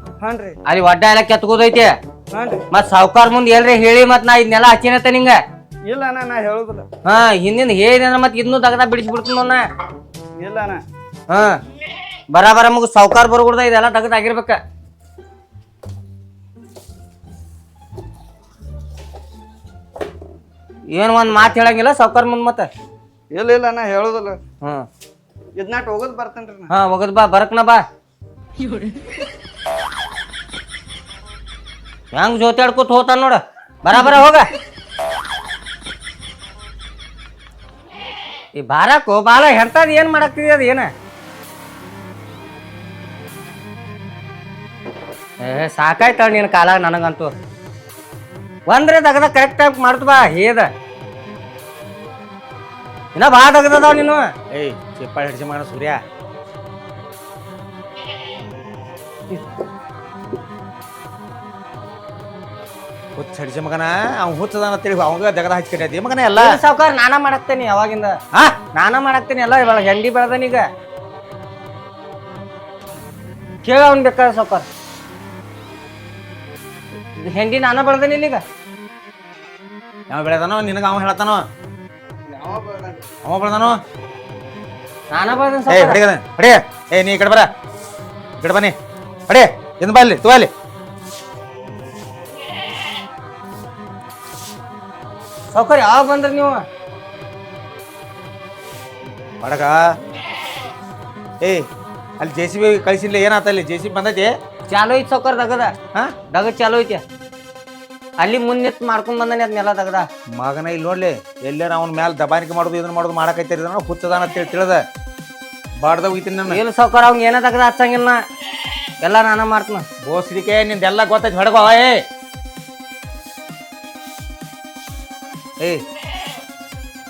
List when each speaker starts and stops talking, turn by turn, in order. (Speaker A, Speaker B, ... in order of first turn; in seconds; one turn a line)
Speaker A: 0.2-0.6
Speaker B: 0.6-2.0
Speaker A: 2.3-2.6
Speaker B: 2.7-5.4
Speaker A: 5.8-6.8
Speaker B: 7.0-9.7
Speaker A: 10.4-10.8
Speaker B: 11.3-11.6
Speaker B: 12.3-14.6
Speaker B: 20.9-22.7
Speaker A: 23.3-24.4
Speaker B: 24.6-24.9
Speaker A: 25.6-26.7
Speaker B: 26.7-27.9
Speaker B: 32.1-34.5
Speaker B: 38.6-40.9
Speaker B: 45.4-47.3
Speaker B: 48.7-50.7
Speaker B: 53.1-54.3
Speaker C: 54.5-56.0
Speaker C: 63.1-66.6
Speaker B: 66.3-70.7
Speaker C: 68.3-68.6
Speaker B: 73.6-74.7
Speaker B: 77.1-78.4
Speaker C: 80.1-81.4
Speaker A: 82.2-83.1
Speaker C: 83.2-83.8
Speaker B: 85.1-86.0
Speaker C: 85.7-87.5
Speaker C: 88.4-88.8
Speaker C: 89.3-90.5
Speaker B: 95.5-96.7
Speaker C: 99.4-100.0
Speaker C: 101.4-101.7
Speaker C: 102.2-104.4
Speaker B: 104.7-105.7
Speaker B: 106.3-107.0
Speaker B: 108.2-110.1
Speaker C: 110.3-114.8
Speaker C: 115.8-116.6
Speaker B: 116.5-118.2
Speaker B: 119.0-119.8
Speaker C: 120.0-122.0
Speaker C: 125.6-125.8